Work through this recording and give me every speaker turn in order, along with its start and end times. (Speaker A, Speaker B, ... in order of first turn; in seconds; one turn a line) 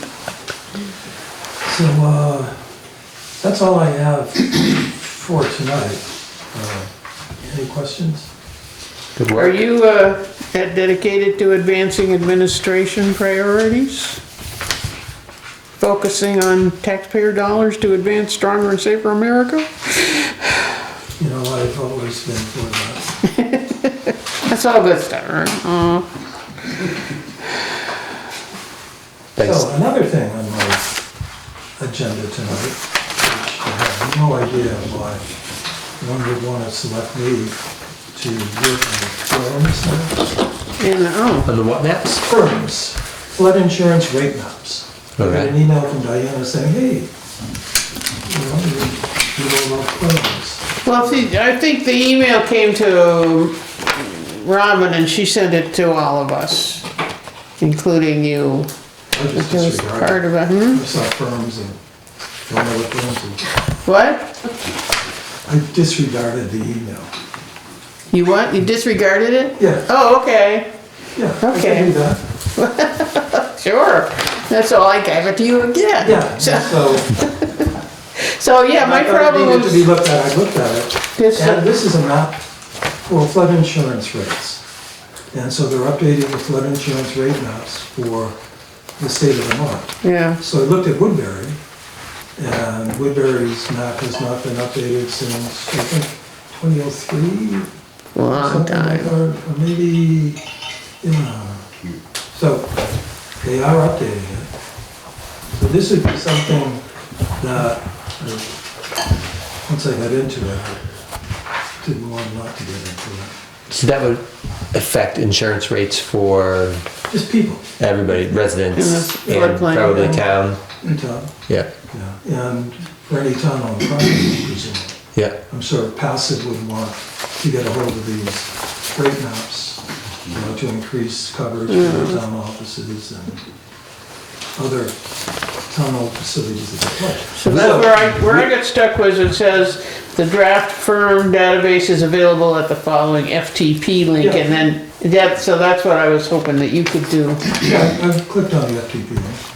Speaker A: 1.6-2.6
Speaker A: 3.4-8.3
Speaker B: 9.2-9.5
Speaker C: 9.3-14.2
Speaker C: 15.8-20.6
Speaker A: 21.2-23.2
Speaker C: 23.4-26.1
Speaker B: 29.4-29.7
Speaker A: 29.4-30.9
Speaker A: 31.8-35.3
Speaker A: 36.0-37.6
Speaker A: 38.1-40.4
Speaker C: 40.8-41.5
Speaker B: 41.5-42.2
Speaker A: 42.2-47.1
Speaker B: 45.2-45.6
Speaker A: 48.2-50.7
Speaker C: 50.9-56.9
Speaker C: 57.6-58.7
Speaker A: 59.1-61.8
Speaker C: 59.3-60.8
Speaker A: 62.5-63.5
Speaker C: 63.9-64.3
Speaker A: 65.5-67.1
Speaker C: 68.1-70.7
Speaker A: 69.6-69.9
Speaker A: 71.2-72.2
Speaker C: 71.4-79.9
Speaker A: 76.0-77.2
Speaker A: 78.8-82.4
Speaker C: 81.2-81.7
Speaker A: 83.0-84.6
Speaker A: 85.3-88.4
Speaker A: 89.0-91.6
Speaker C: 90.0-90.4
Speaker A: 92.4-97.7
Speaker C: 98.2-99.1
Speaker A: 98.3-100.4
Speaker A: 101.0-101.7
Speaker A: 102.3-102.8
Speaker A: 103.4-104.5
Speaker A: 105.5-106.8
Speaker A: 107.3-108.6
Speaker A: 109.6-110.9
Speaker A: 111.8-113.3
Speaker B: 113.7-116.9
Speaker A: 117.1-117.7
Speaker B: 117.8-120.6
Speaker C: 118.7-120.2
Speaker A: 119.9-120.2
Speaker A: 120.8-121.3
Speaker A: 121.9-133.4
Speaker C: 131.7-132.2
Speaker A: 134.6-135.1
Speaker A: 135.7-138.5
Speaker C: 137.3-147.6
Speaker A: 144.2-144.5
Speaker A: 147.5-149.4